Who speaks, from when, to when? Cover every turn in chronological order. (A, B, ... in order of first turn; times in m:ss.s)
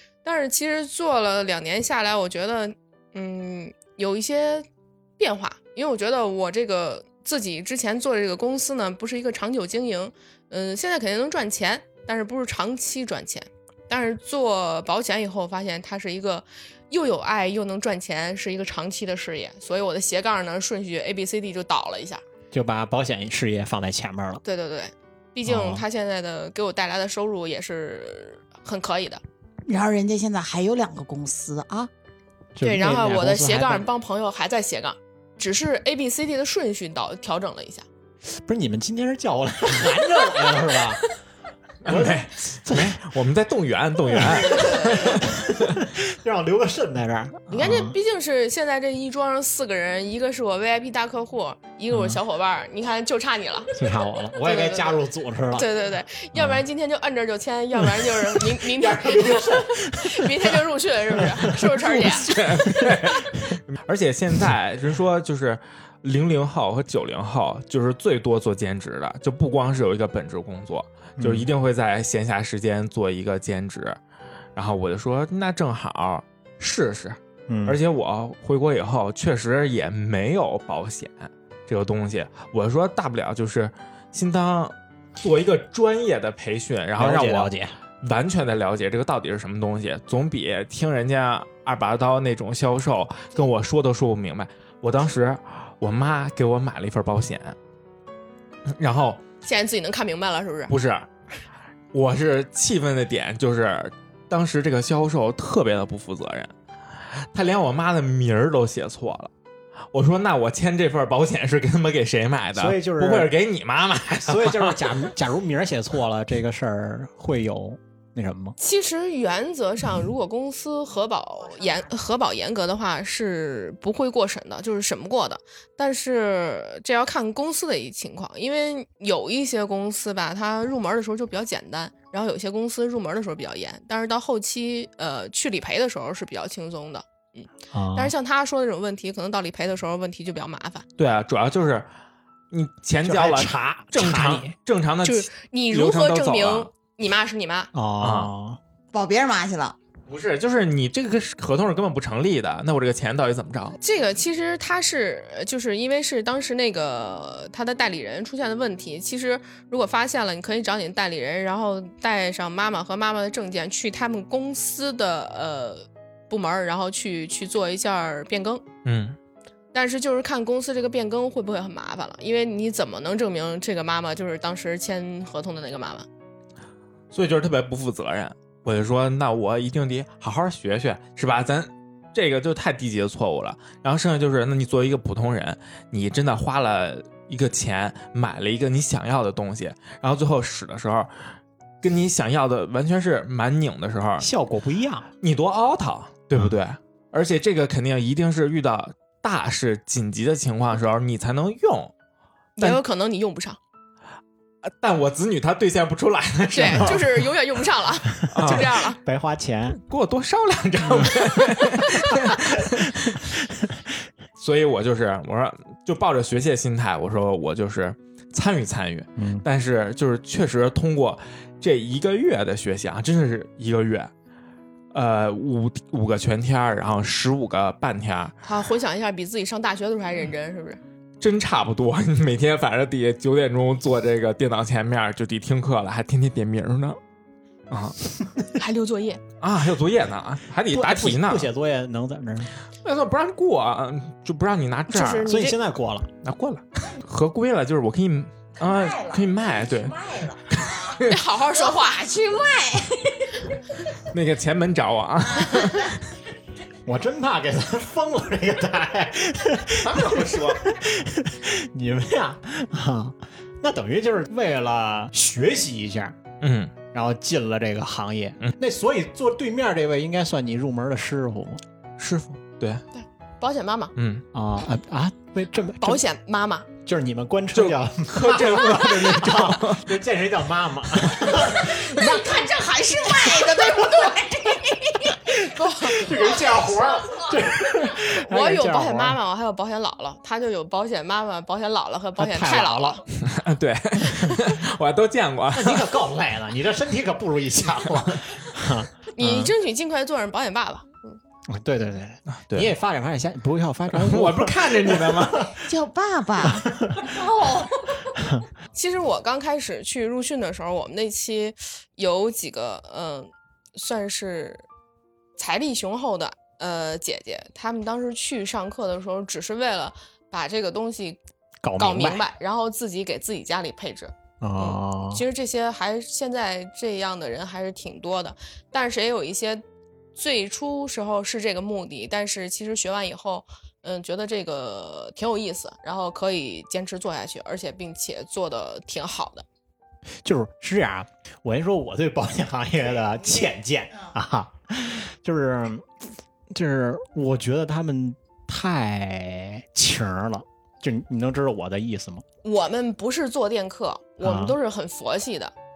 0:00.2-0:04.7 A
0:05.2-0:22.2 A
0:22.5-0:24.4 B
0:24.4-0:29.2 A
0:25.4-0:25.8 B
0:29.7-0:31.9 C
0:32.6-0:33.9 B
0:32.6-0:37.9 A
0:38.3-0:41.0 B
0:41.8-0:45.7 D
0:41.8-0:43.0 B
0:44.1-0:48.0 B
0:44.5-0:45.1 A
0:47.5-0:53.7 A
0:51.9-0:52.2 B
0:53.8-0:55.7 B
0:54.4-0:55.0 A
0:55.5-1:02.3 A
0:56.4-0:56.6 B
0:57.8-1:00.5 B
1:01.9-1:14.0 D
1:02.6-1:02.9 B
1:11.2-1:11.5 B
1:14.6-1:37.6 D
1:17.5-1:17.8 B
1:27.0-1:27.8 B
1:38.7-1:39.2 D
1:39.4-1:40.7 A
1:40.7-1:41.1 D
1:41.9-1:46.5 D
1:47.3-1:49.3 D
1:49.9-1:54.9 D
1:52.6-1:53.4 B
1:54.2-1:58.6 B
1:58.6-2:20.8 A
2:17.7-2:18.1 B
2:21.0-2:21.9 D
2:22.5-2:26.7 D
2:23.0-2:24.5 B
2:25.0-2:27.7 A
2:27.7-2:28.6 B
2:28.0-2:28.3 D
2:28.9-2:29.8 C
2:30.1-2:33.8 D
2:33.8-2:48.6 A
2:48.8-2:49.2 D
2:49.7-2:56.1 A
2:57.1-3:11.1 D
3:11.8-3:14.3 D
3:14.2-3:15.1 B
3:15.2-3:21.9 D
3:22.6-3:23.6 A
3:24.6-3:27.3 D
3:26.5-3:29.0 A
3:28.2-3:29.8 B
3:28.3-3:28.8 D
3:29.8-3:33.4 D
3:31.6-3:32.8 B
3:34.4-3:44.1 D
3:39.2-3:39.4 B
3:44.9-3:48.4 D
3:48.4-3:50.8 A
3:51.2-3:57.0 D
3:57.7-3:58.0 D
3:58.6-3:59.2 A
3:59.4-4:01.5 D
4:00.7-4:02.5 B
4:02.8-4:05.4 D
4:04.9-4:05.6 A
4:05.3-4:06.1 B
4:06.2-4:11.2 D
4:08.6-4:13.5 C
4:11.1-4:12.0 A
4:14.1-4:16.0 D
4:16.8-4:26.2 B
4:19.8-4:20.6 D
4:26.4-4:26.7 D
4:26.9-4:31.6 B
4:32.0-4:32.8 D
4:32.9-4:33.9 A
4:34.0-4:34.2 D
4:34.3-4:36.0 B
4:35.8-4:36.7 A
4:36.8-4:42.1 B
4:37.5-4:39.9 D
4:41.7-4:45.3 C
4:45.2-4:49.2 B
4:45.4-4:46.1 A
4:46.1-4:47.3 C
4:48.1-4:53.0 A
4:52.2-4:53.0 B
4:53.2-4:55.9 D
4:55.5-4:59.5 B
4:59.2-5:01.2 A
5:01.5-5:05.7 B
5:03.9-5:05.5 D
5:05.6-5:08.1 C
5:06.4-5:07.2 B
5:08.1-5:08.5 B
5:08.8-5:14.6 A
5:15.4-5:21.2 A
5:21.6-5:22.2 B
5:21.8-5:29.6 A
5:24.4-5:25.2 B
5:30.1-5:39.4 A
5:40.2-5:52.2 B
5:52.4-5:55.5 A
5:54.2-5:54.6 B